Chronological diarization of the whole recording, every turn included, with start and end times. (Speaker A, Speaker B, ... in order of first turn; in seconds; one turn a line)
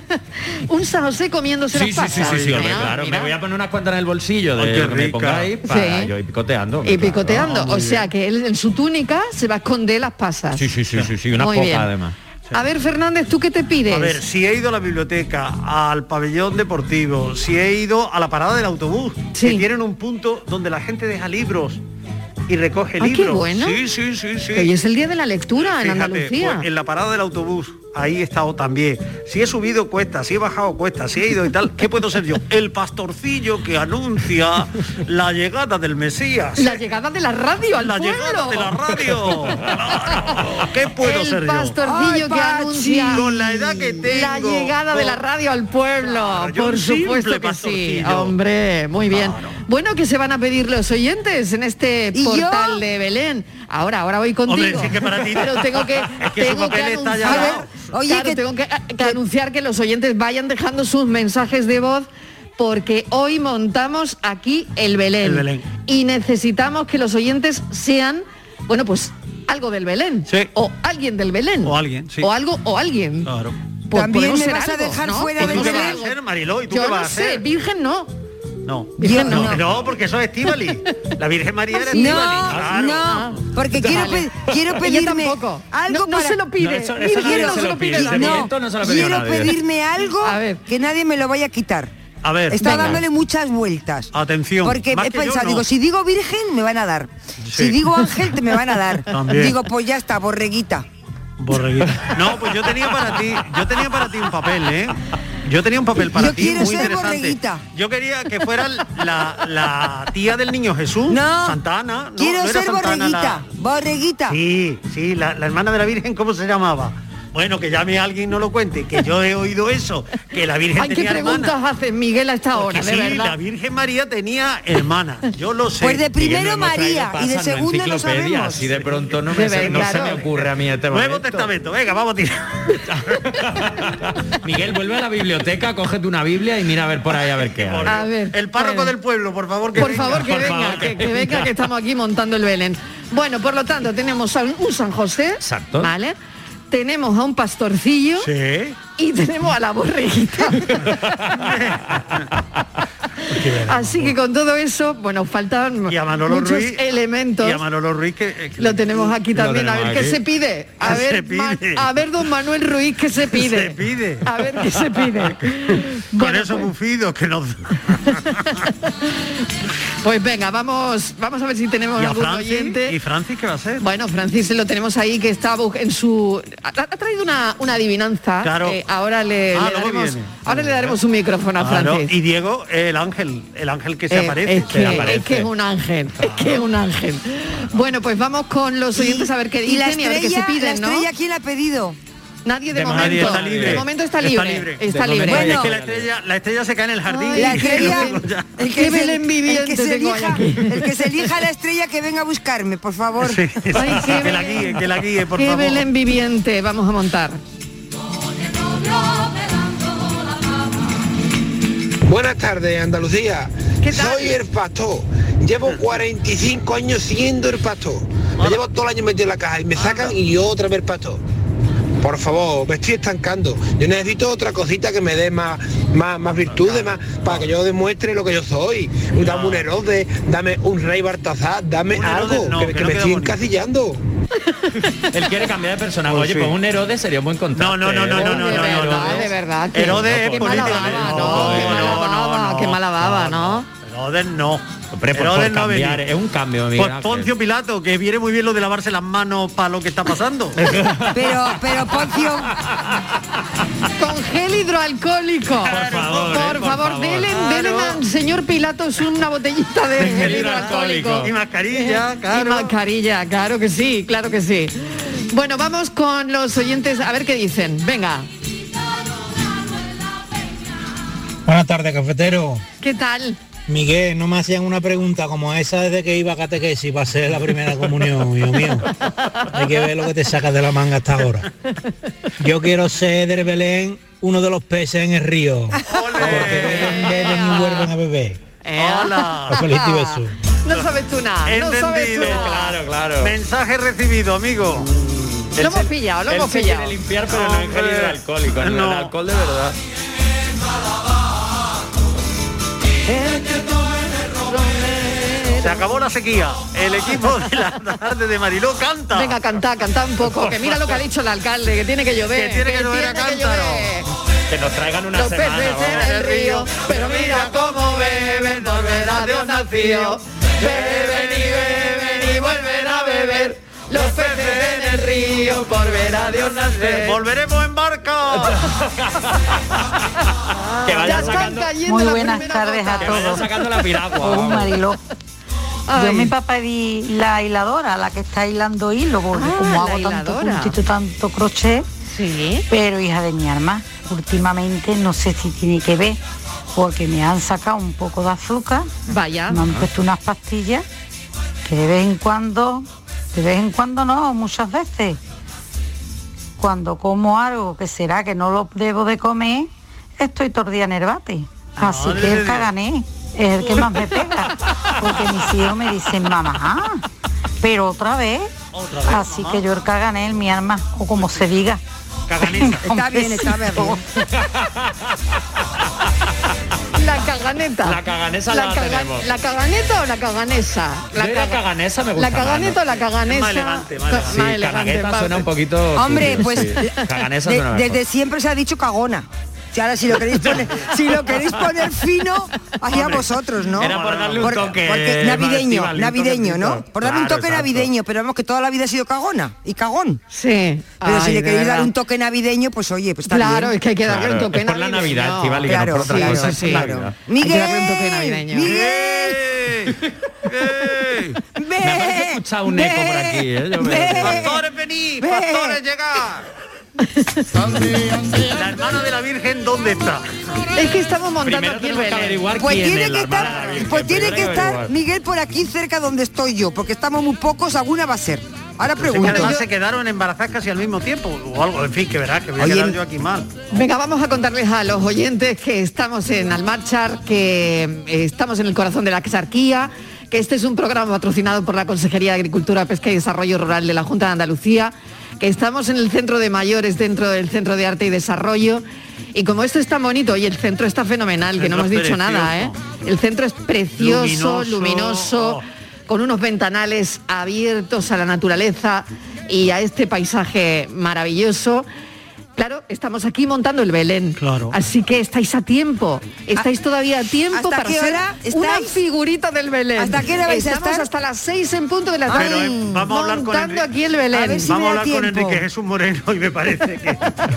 Speaker A: 0.5-3.3
Speaker B: 1.7-7.5
Speaker C: 2.1-2.9
Speaker C: 4.6-5.5
Speaker A: 5.7-6.1
Speaker A: 6.8-10.7
Speaker C: 7.2-8.1
Speaker B: 10.5-12.1
Speaker A: 11.4-11.9
Speaker A: 12.5-14.2
Speaker C: 13.9-21.8
Speaker A: 19.3-19.6
Speaker C: 22.5-24.7
Speaker A: 23.0-23.8
Speaker A: 24.5-26.6
Speaker C: 25.6-36.8
Speaker A: 36.6-38.7
Speaker C: 37.8-41.8
Speaker A: 41.0-43.6
Speaker D: 41.8-43.3
Speaker C: 43.1-45.2
Speaker A: 44.1-73.3
Speaker C: 46.0-48.4
Speaker C: 49.1-49.5
Speaker D: 52.1-52.8
Speaker C: 54.5-57.9
Speaker D: 57.2-58.4
Speaker C: 65.2-65.7
Speaker C: 71.6-72.3
Speaker C: 73.2-73.6
Speaker A: 73.9-76.2
Speaker D: 73.9-76.0
Speaker C: 75.4-77.4
Speaker A: 76.7-78.1
Speaker C: 78.6-83.4
Speaker D: 79.0-79.6
Speaker A: 79.0-79.6
Speaker A: 81.7-82.5
Speaker D: 81.9-86.4
Speaker A: 83.0-84.3
Speaker A: 84.8-88.5
Speaker B: 86.6-89.6
Speaker D: 87.2-91.9
Speaker A: 90.2-90.6
Speaker C: 92.2-93.0
Speaker D: 92.5-94.1
Speaker A: 92.6-93.0
Speaker C: 94.1-95.7
Speaker D: 94.6-100.8
Speaker C: 97.4-98.0
Speaker C: 99.1-99.5
Speaker C: 101.4-113.5
Speaker D: 106.0-107.6
Speaker D: 111.1-111.6
Speaker D: 112.2-114.4
Speaker C: 114.3-121.5
Speaker A: 120.8-123.3
Speaker C: 122.5-126.0
Speaker D: 125.8-128.7
Speaker B: 126.1-131.5
Speaker C: 128.7-132.8
Speaker A: 129.3-130.2
Speaker B: 132.9-137.9
Speaker C: 137.4-140.9
Speaker A: 137.8-138.9
Speaker A: 139.8-146.2
Speaker B: 139.8-141.5
Speaker B: 145.4-145.9
Speaker A: 146.7-148.3
Speaker C: 148.2-148.8
Speaker A: 149.0-150.9
Speaker C: 150.8-152.3
Speaker C: 153.3-154.1
Speaker A: 153.7-157.6
Speaker C: 155.9-156.8
Speaker C: 157.4-159.2
Speaker A: 158.6-166.7
Speaker B: 159.3-160.2
Speaker C: 160.8-161.8
Speaker C: 163.3-164.3
Speaker C: 166.1-168.4
Speaker A: 168.6-169.1
Speaker A: 170.0-172.9
Speaker C: 172.0-173.8
Speaker A: 173.8-182.1
Speaker C: 178.4-178.8
Speaker C: 179.5-181.0
Speaker C: 181.6-185.2
Speaker A: 184.1-191.1
Speaker B: 184.7-185.5
Speaker C: 186.2-186.6
Speaker D: 188.9-192.0
Speaker A: 192.4-195.6
Speaker B: 192.7-193.8
Speaker C: 192.8-198.6
Speaker B: 194.9-196.1
Speaker D: 195.3-195.7
Speaker A: 197.1-198.2
Speaker D: 197.3-203.4
Speaker A: 198.7-200.8
Speaker C: 203.2-205.9
Speaker A: 203.7-204.8
Speaker A: 205.3-207.4
Speaker E: 212.0-221.2
Speaker A: 213.8-214.4
Speaker C: 218.4-218.6
Speaker C: 219.8-220.1
Speaker E: 222.0-234.0
Speaker C: 226.4-227.5
Speaker C: 229.2-229.7
Speaker C: 231.9-233.4
Speaker B: 235.0-242.1
Speaker C: 236.1-236.5
Speaker C: 237.5-246.0
Speaker A: 238.2-243.7
Speaker B: 244.9-247.3
Speaker C: 246.7-250.8
Speaker B: 250.6-252.8
Speaker D: 251.1-252.5
Speaker A: 254.0-268.3
Speaker B: 255.7-257.2
Speaker C: 255.7-258.0
Speaker B: 260.0-261.3
Speaker C: 260.0-262.7
Speaker F: 271.4-272.6
Speaker A: 272.8-273.4
Speaker F: 273.7-278.9
Speaker F: 279.5-281.5
Speaker F: 282.4-288.4
Speaker C: 285.9-287.1
Speaker A: 286.4-287.9
Speaker A: 288.6-292.6
Speaker C: 288.8-289.7
Speaker F: 289.5-290.3
Speaker C: 291.4-294.9
Speaker B: 292.2-293.3
Speaker B: 295.5-299.8
Speaker A: 295.6-296.9
Speaker C: 297.3-299.1
Speaker A: 304.5-305.7
Speaker C: 305.6-309.4
Speaker A: 309.1-314.1
Speaker C: 310.2-311.0
Speaker C: 312.3-313.9
Speaker B: 314.5-316.1
Speaker A: 315.1-327.2
Speaker C: 315.9-317.9
Speaker C: 318.5-320.1
Speaker C: 320.7-321.9
Speaker C: 324.0-324.6
Speaker C: 326.6-328.7
Speaker A: 330.5-333.4
Speaker B: 330.8-331.7
Speaker G: 331.8-333.5
Speaker B: 333.0-334.7
Speaker G: 334.2-335.0
Speaker A: 335.9-336.3
Speaker G: 335.9-341.9
Speaker A: 339.3-340.8
Speaker A: 342.1-342.6
Speaker G: 342.7-346.2
Speaker G: 346.7-348.9
Speaker A: 349.1-349.7
Speaker G: 349.5-350.8
Speaker G: 351.6-355.2
Speaker G: 356.6-367.0
Speaker C: 361.8-362.7
Speaker G: 367.6-368.5
Speaker C: 368.7-369.6
Speaker G: 369.1-371.8
Speaker C: 372.3-372.8
Speaker G: 372.4-374.0
Speaker D: 372.8-374.0
Speaker B: 374.4-374.9
Speaker A: 376.9-378.0
Speaker B: 377.8-379.3
Speaker A: 378.5-381.6
Speaker B: 381.1-382.8
Speaker A: 382.1-385.4
Speaker C: 383.2-384.5
Speaker B: 384.3-388.0
Speaker D: 385.9-400.2
Speaker C: 392.9-394.8
Speaker B: 393.8-397.1
Speaker C: 396.0-397.9
Speaker A: 400.3-401.9
Speaker D: 401.0-403.7
Speaker A: 403.3-406.9
Speaker B: 404.0-407.1
Speaker D: 405.6-409.4
Speaker A: 407.4-408.8
Speaker C: 408.6-409.9
Speaker C: 410.5-411.4
Speaker D: 411.6-414.6
Speaker B: 411.8-414.5
Speaker C: 414.1-416.4
Speaker D: 415.2-415.8
Speaker A: 417.1-417.4
Speaker C: 418.5-420.3
Speaker A: 420.7-422.4
Speaker B: 421.4-424.9
Speaker D: 422.5-429.6
Speaker C: 423.4-424.6
Speaker C: 429.0-433.5
Speaker A: 429.3-429.6
Speaker D: 432.6-432.9
Speaker A: 433.7-461.9
Speaker C: 451.6-452.8
Speaker C: 454.0-455.6
Speaker A: 462.6-474.8
Speaker C: 464.4-464.8
Speaker D: 467.5-469.0
Speaker D: 469.9-471.1
Speaker D: 472.3-472.9
Speaker C: 472.3-473.9
Speaker D: 474.3-475.6
Speaker C: 474.6-477.2